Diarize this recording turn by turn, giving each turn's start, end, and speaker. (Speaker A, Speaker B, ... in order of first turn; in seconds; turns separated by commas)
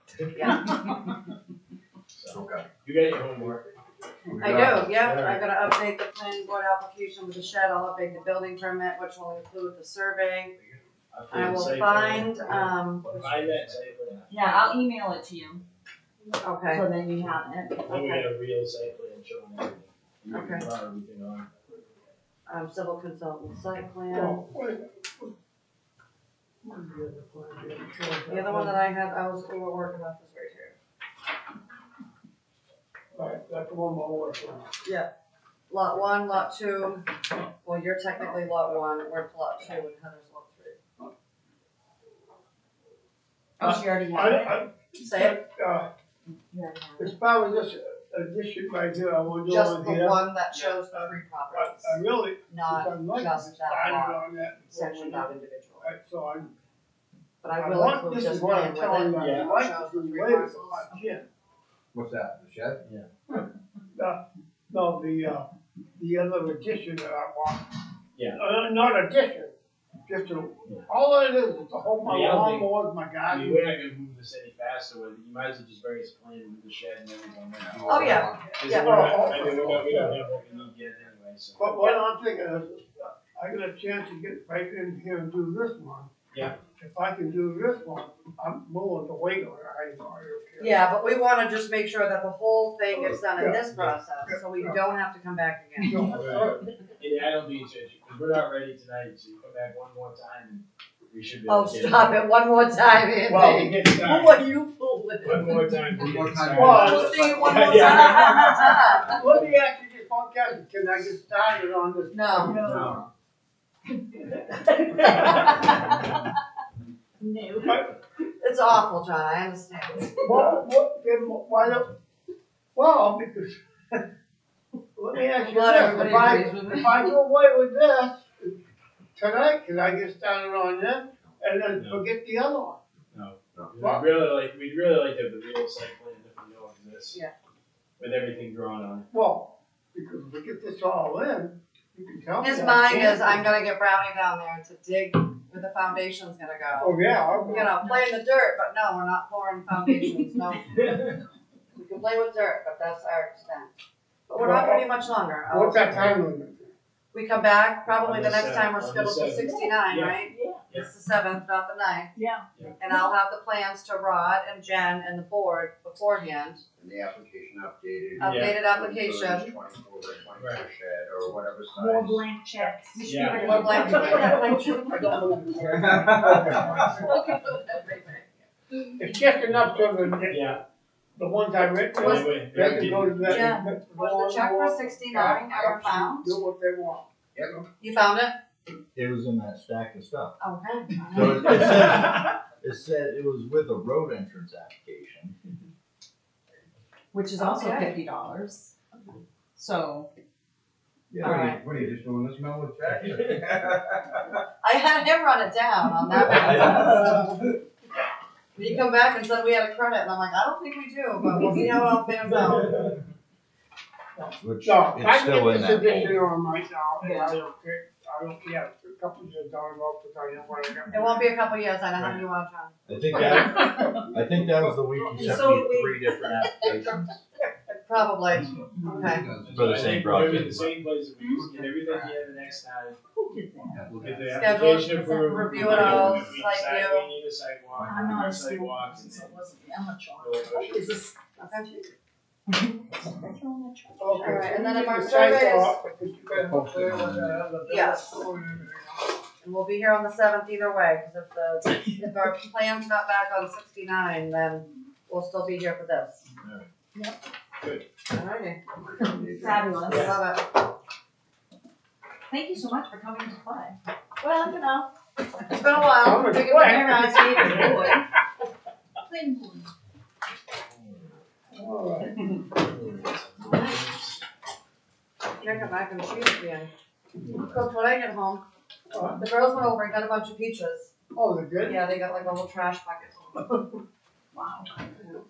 Speaker A: 0.3-0.7, Speaker B: 0.5-1.1, Speaker C: 2.1-3.7, Speaker D: 2.3-2.6, Speaker A: 4.4-10.6, Speaker D: 4.4-4.9, Speaker C: 4.8-5.5, Speaker C: 11.1-14.8, Speaker A: 11.3-13.1, Speaker E: 11.5-12.0, Speaker E: 13.0-14.2, Speaker B: 14.3-15.7, Speaker A: 16.4-16.9, Speaker B: 16.7-17.9, Speaker C: 17.9-21.5, Speaker A: 17.9-18.2, Speaker A: 20.3-20.7, Speaker A: 22.5-24.4, Speaker F: 24.1-24.9, Speaker F: 26.6-28.8, Speaker A: 28.3-30.8, Speaker F: 33.1-34.7, Speaker A: 34.9-35.1, Speaker A: 35.7-37.0, Speaker A: 37.6-40.8, Speaker B: 43.6-44.6, Speaker F: 43.6-45.9, Speaker A: 45.0-45.4, Speaker B: 46.4-47.1, Speaker F: 47.0-56.5, Speaker A: 49.5-54.2, Speaker A: 54.7-55.9, Speaker A: 57.4-61.0, Speaker F: 57.5-61.2, Speaker C: 59.2-59.5, Speaker D: 62.0-62.8, Speaker F: 63.9-67.7, Speaker C: 68.2-68.4, Speaker F: 68.4-69.5, Speaker F: 70.1-73.6, Speaker C: 72.0-72.7, Speaker C: 73.3-82.0, Speaker D: 77.7-80.0, Speaker A: 77.9-79.2, Speaker F: 78.7-80.3, Speaker F: 81.6-90.8, Speaker C: 86.3-86.6, Speaker A: 90.6-96.0, Speaker F: 92.9-94.8, Speaker F: 95.8-96.6, Speaker C: 96.0-102.2, Speaker A: 101.5-105.7, Speaker F: 103.3-104.1, Speaker C: 103.3-104.4, Speaker C: 105.2-108.8, Speaker D: 106.0-107.6, Speaker F: 106.6-108.2, Speaker A: 106.7-109.1, Speaker B: 108.1-108.5, Speaker F: 109.1-113.0, Speaker A: 112.1-112.5, Speaker B: 112.4-113.0, Speaker C: 112.6-113.0, Speaker B: 115.0-116.1, Speaker C: 115.0-115.7, Speaker B: 117.2-117.8, Speaker F: 117.6-117.9, Speaker A: 118.4-120.1, Speaker F: 120.2-121.9, Speaker F: 122.8-124.0, Speaker F: 125.0-128.5, Speaker A: 125.4-127.1, Speaker F: 129.2-132.8, Speaker C: 131.7-132.0, Speaker C: 133.1-137.2, Speaker F: 133.8-134.1, Speaker C: 138.0-139.1, Speaker F: 139.1-143.5, Speaker A: 142.4-150.8, Speaker F: 146.8-147.9, Speaker B: 147.3-147.7, Speaker C: 150.7-151.2, Speaker A: 151.8-153.7, Speaker A: 154.3-156.1, Speaker F: 154.3-154.9, Speaker F: 155.5-156.7, Speaker A: 157.1-162.1, Speaker C: 157.9-160.9, Speaker B: 160.3-160.7, Speaker B: 162.2-163.1, Speaker A: 162.8-166.6, Speaker D: 166.8-172.2, Speaker C: 168.2-168.6, Speaker A: 168.2-169.5, Speaker C: 170.4-170.7, Speaker B: 171.7-174.3, Speaker C: 173.1-173.9, Speaker A: 173.2-176.3, Speaker F: 173.4-177.2, Speaker D: 175.8-176.8, Speaker B: 177.1-177.7, Speaker A: 177.7-178.2, Speaker B: 178.8-179.2, Speaker F: 179.0-180.6, Speaker C: 180.3-180.6, Speaker F: 181.2-187.1, Speaker A: 182.0-182.3, Speaker C: 182.0-183.5, Speaker A: 183.2-186.3, Speaker A: 187.8-188.3, Speaker E: 188.9-190.4, Speaker A: 190.4-191.7, Speaker E: 191.1-195.4, Speaker B: 197.1-198.8, Speaker A: 197.4-198.0, Speaker B: 199.6-200.1, Speaker E: 201.1-202.0, Speaker D: 201.2-203.8, Speaker A: 201.2-201.6, Speaker A: 204.6-207.3, Speaker E: 206.2-207.2, Speaker D: 206.4-207.3, Speaker A: 208.6-212.7, Speaker F: 211.4-211.7, Speaker F: 214.2-221.3, Speaker E: 214.4-216.2, Speaker B: 217.0-217.4, Speaker A: 220.9-222.8, Speaker C: 222.0-222.2, Speaker E: 222.9-227.2, Speaker B: 225.1-226.7, Speaker A: 227.8-229.3, Speaker F: 228.8-229.0, Speaker D: 228.8-230.3, Speaker E: 229.2-230.7, Speaker C: 229.4-233.0, Speaker B: 231.2-231.5, Speaker D: 231.5-232.2, Speaker B: 233.2-234.0, Speaker D: 233.8-234.5, Speaker C: 234.0-239.4, Speaker A: 234.3-237.1, Speaker D: 235.6-236.3, Speaker B: 237.8-241.2, Speaker C: 240.2-241.0, Speaker A: 241.3-241.9, Speaker B: 242.5-244.6, Speaker F: 244.0-249.1, Speaker A: 244.1-245.8, Speaker E: 246.5-247.4, Speaker D: 246.7-247.3, Speaker A: 247.7-248.1, Speaker A: 249.4-256.2, Speaker A: 258.1-258.6, Speaker D: 259.0-260.1, Speaker B: 259.3-260.1, Speaker C: 259.9-260.1, Speaker A: 259.9-260.5, Speaker B: 262.3-264.9, Speaker A: 265.5-268.0, Speaker F: 265.9-267.9, Speaker B: 266.7-268.0, Speaker C: 267.4-267.9, Speaker B: 269.0-269.7, Speaker F: 271.5-272.5, Speaker C: 272.5-274.2, Speaker A: 273.4-273.9, Speaker A: 275.4-276.7, Speaker A: 277.4-278.4, Speaker F: 278.9-279.2, Speaker A: 279.1-280.9, Speaker F: 281.1-281.8, Speaker A: 281.6-283.5, Speaker B: 284.3-285.1